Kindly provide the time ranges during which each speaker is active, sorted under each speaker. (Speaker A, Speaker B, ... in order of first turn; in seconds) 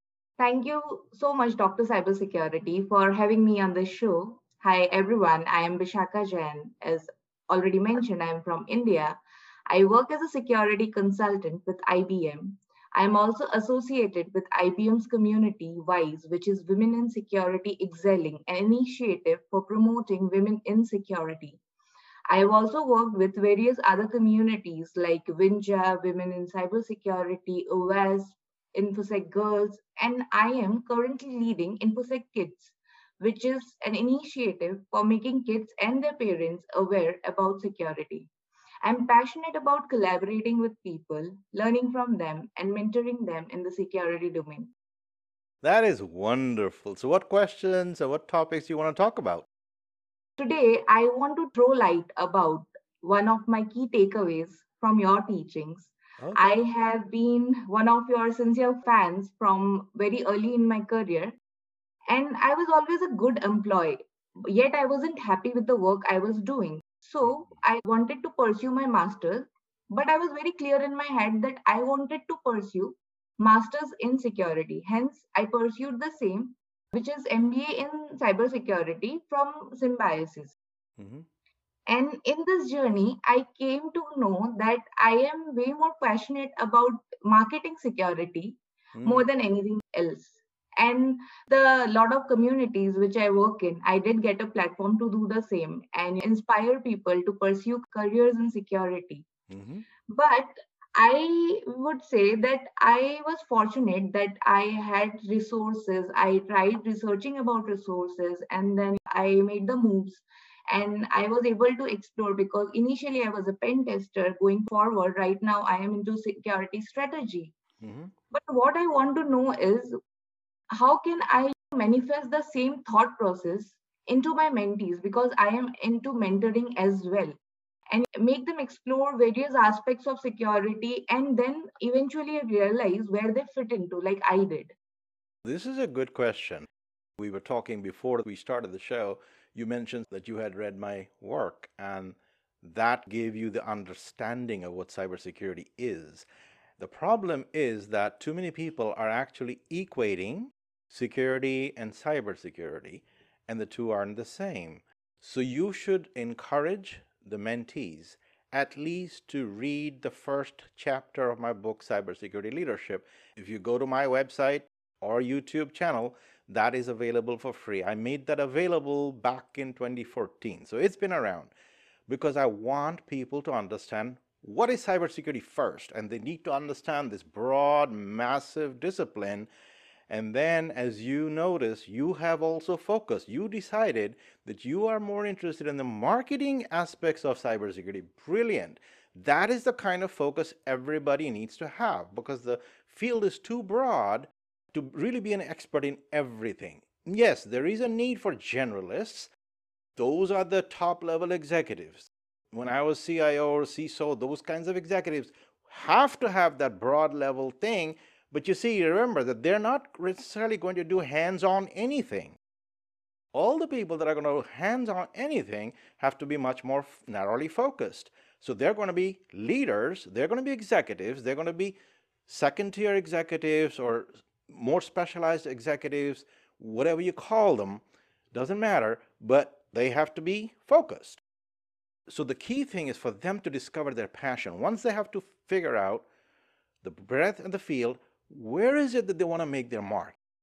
Speaker A: 0.4-21.6, 22.3-38.3, 38.8-44.7, 50.4-61.4, 62.1-80.5, 81.9-99.2, 100.1-117.5, 118.3-119.9, 120.7-127.4, 127.9-134.8
Speaker B: 45.6-49.5, 56.2-56.5, 67.2-67.5, 81.0-81.2, 88.9-89.2, 99.5-99.8, 117.8-118.1, 135.4-146.3, 146.8-171.5, 172.1-179.5, 180.1-199.3, 200.0-212.4, 213.3-227.8, 228.3-231.2, 232.1-236.1, 236.8-240.2